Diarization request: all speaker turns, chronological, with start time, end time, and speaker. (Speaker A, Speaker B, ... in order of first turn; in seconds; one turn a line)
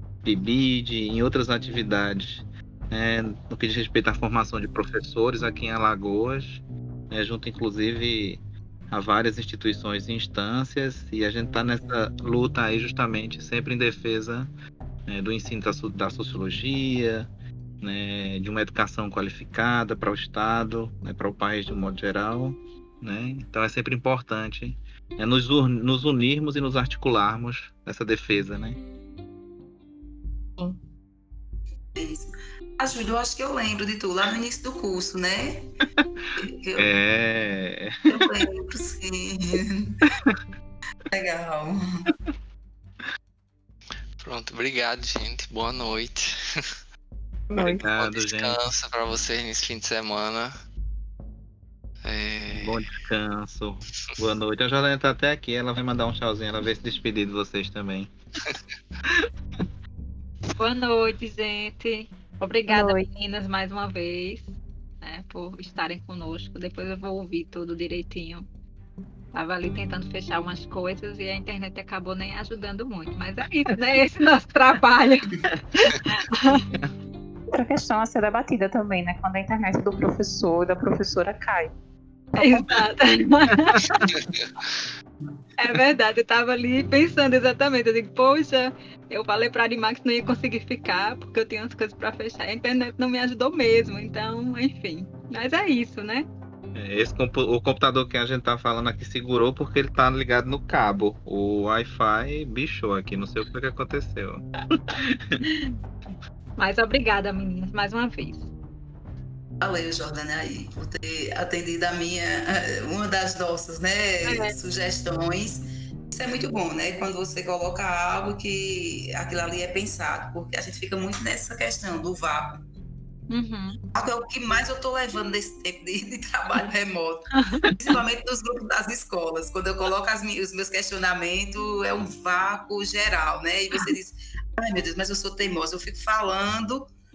Speaker A: 0.2-14.5
Speaker A: 15.1-17.3
Speaker A: 17.8-28.8
Speaker B: 31.9-35.7
Speaker A: 36.0-38.5
Speaker B: 36.4-36.9
Speaker B: 38.1-40.1
Speaker A: 40.1-40.4
Speaker B: 41.1-42.1
Speaker C: 44.2-46.7
Speaker D: 47.5-47.8
Speaker A: 47.6-48.6
Speaker C: 47.7-50.5
Speaker C: 52.0-52.8
Speaker A: 52.5-58.1
Speaker A: 59.0-59.6
Speaker E: 60.6-68.5
Speaker D: 62.7-63.1
Speaker E: 69.3-76.7
Speaker D: 77.5-81.7
Speaker D: 82.3-82.7
Speaker E: 82.4-84.0
Speaker A: 83.8-84.1
Speaker E: 85.6-96.2
Speaker A: 96.7-105.4
Speaker E: 105.4-105.8
Speaker E: 106.6-108.5
Speaker B: 109.6-122.6
Speaker E: 114.2-114.5
Speaker E: 123.3-123.8
Speaker B: 123.9-136.9
Speaker E: 127.3-127.7